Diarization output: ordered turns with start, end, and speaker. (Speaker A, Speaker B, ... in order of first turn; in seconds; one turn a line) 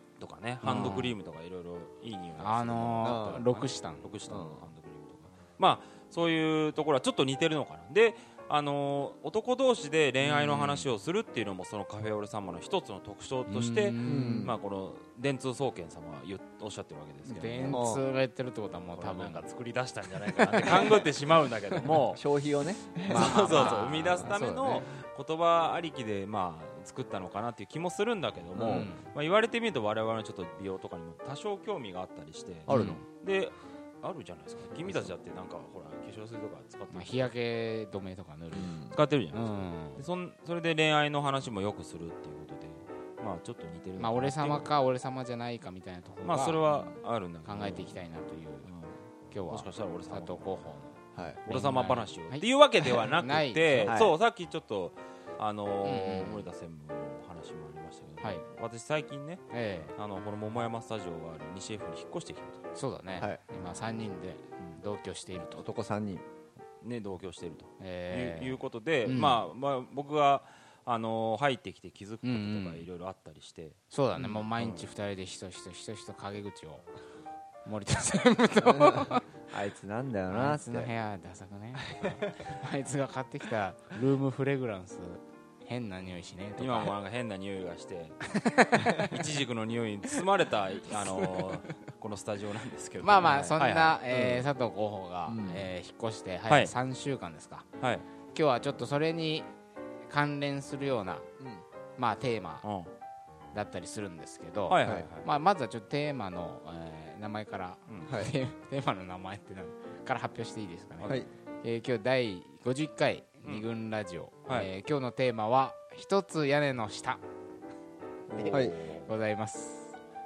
Speaker A: 0.2-17.8
Speaker B: 0.6-1.1
Speaker B: 2.4-4.1
Speaker C: 3.0-3.5
Speaker C: 4.3-4.7
Speaker C: 10.2-10.9
Speaker B: 13.5-14.5
Speaker C: 14.0-14.6
Speaker B: 17.2-19.4
Speaker C: 17.7-18.0
Speaker A: 18.9-22.2
Speaker B: 20.2-21.3
Speaker C: 22.1-23.8
Speaker A: 23.1-37.3
Speaker B: 23.1-24.9
Speaker C: 28.5-28.9
Speaker B: 28.7-29.1
Speaker C: 32.7-33.0
Speaker B: 32.7-33.0
Speaker C: 34.8-35.1
Speaker B: 36.9-38.8
Speaker C: 38.5-39.0
Speaker A: 38.7-44.6
Speaker B: 39.3-40.0
Speaker B: 44.0-46.6
Speaker A: 46.2-48.0
Speaker C: 46.7-47.0
Speaker B: 47.4-48.7
Speaker A: 48.6-50.7
Speaker B: 49.3-54.0
Speaker C: 51.1-51.4
Speaker A: 51.5-62.6
Speaker C: 53.9-54.1
Speaker B: 55.8-56.5
Speaker B: 59.5-59.9
Speaker B: 62.7-65.7
Speaker C: 65.6-66.2
Speaker A: 66.8-73.8
Speaker B: 67.8-69.5
Speaker B: 72.2-72.9
Speaker B: 73.9-76.8
Speaker A: 74.5-74.9
Speaker B: 77.6-79.3
Speaker C: 78.6-80.9
Speaker B: 80.3-86.9
Speaker A: 86.6-88.2
Speaker B: 88.3-89.2
Speaker A: 89.0-94.0
Speaker B: 91.0-91.4
Speaker B: 93.0-97.7
Speaker C: 94.1-94.5
Speaker C: 95.3-95.7
Speaker A: 97.8-98.0
Speaker B: 98.3-99.5
Speaker B: 100.0-101.3
Speaker B: 102.0-102.7
Speaker A: 102.6-102.9
Speaker B: 103.5-117.2
Speaker A: 104.7-105.3
Speaker C: 104.8-105.1
Speaker A: 107.9-108.2
Speaker C: 108.0-108.3
Speaker B: 118.3-119.9
Speaker A: 118.3-119.1
Speaker C: 118.5-118.8